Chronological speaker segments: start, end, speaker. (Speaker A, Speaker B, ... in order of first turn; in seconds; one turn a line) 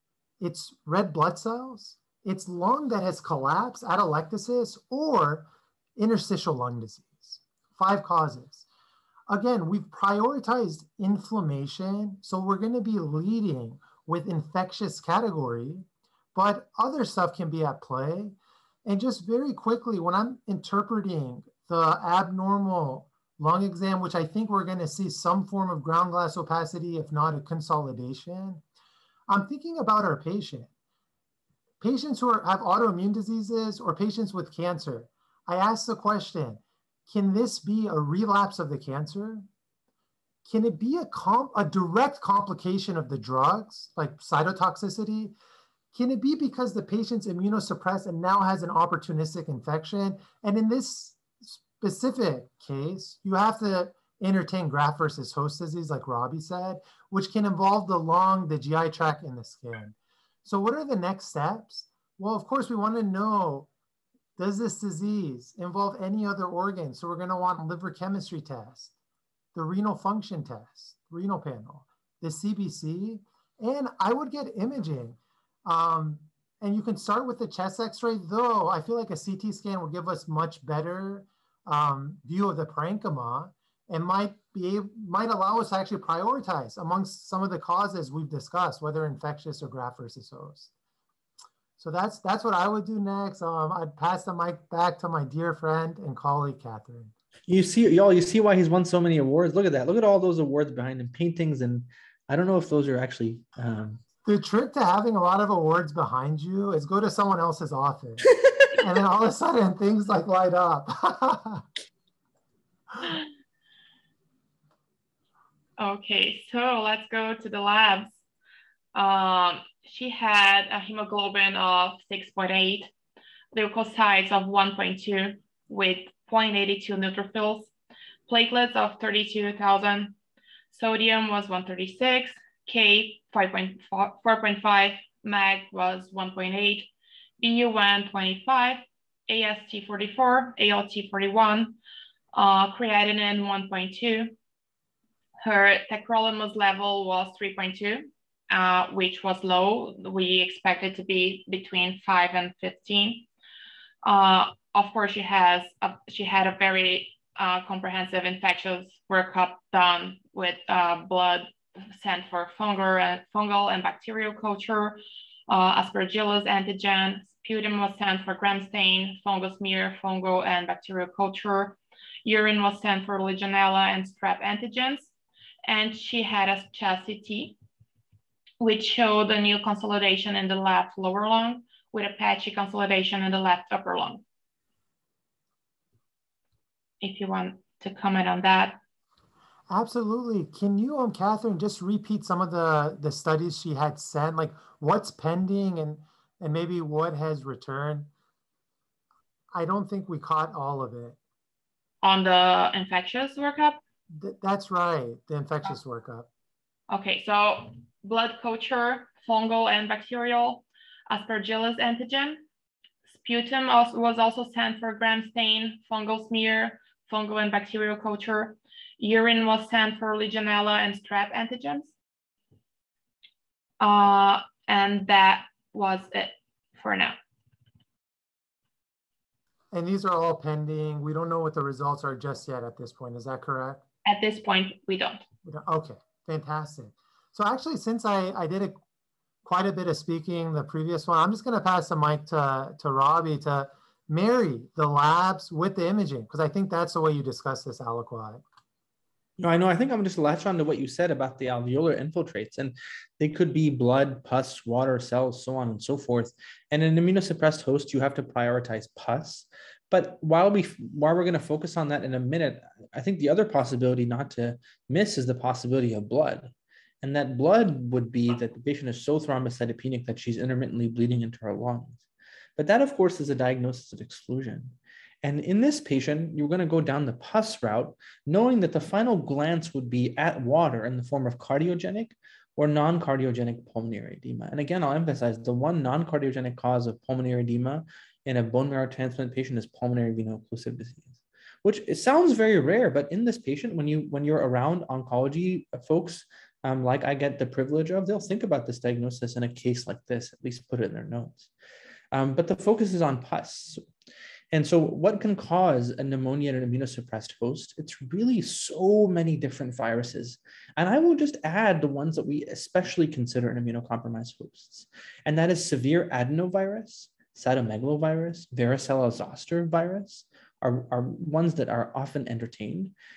Speaker A: 0.4-8.6
Speaker A: 9.3-28.6
Speaker A: 29.3-30.7
Speaker A: 31.8-39.5
Speaker A: 40.5-45.3
Speaker A: 45.9-63.7
Speaker A: 64.4-68.9
Speaker A: 69.5-90.7
Speaker A: 91.8-97.1
Speaker B: 97.5-104.0
Speaker A: 104.2-111.6
Speaker C: 115.8-118.1
Speaker C: 118.9-122.9
Speaker C: 123.5-127.7
Speaker C: 128.3-130.1
Speaker C: 130.7-136.9
Speaker C: 137.4-141.8
Speaker C: 142.3-144.3
Speaker C: 145.4-153.3
Speaker C: 154.0-175.1
Speaker C: 175.6-177.6
Speaker C: 178.6-184.2
Speaker C: 187.0-188.8
Speaker A: 189.7-198.1
Speaker A: 199.5-201.2
Speaker C: 202.0-203.8
Speaker A: 204.1-206.3
Speaker C: 206.9-212.4
Speaker C: 213.1-221.9
Speaker C: 223.8-227.2
Speaker A: 229.7-233.8
Speaker C: 234.1-235.2
Speaker A: 235.4-238.8
Speaker A: 239.4-248.4
Speaker B: 249.4-272.0
Speaker B: 272.6-301.5
Speaker B: 302.1-303.8
Speaker B: 304.5-322.9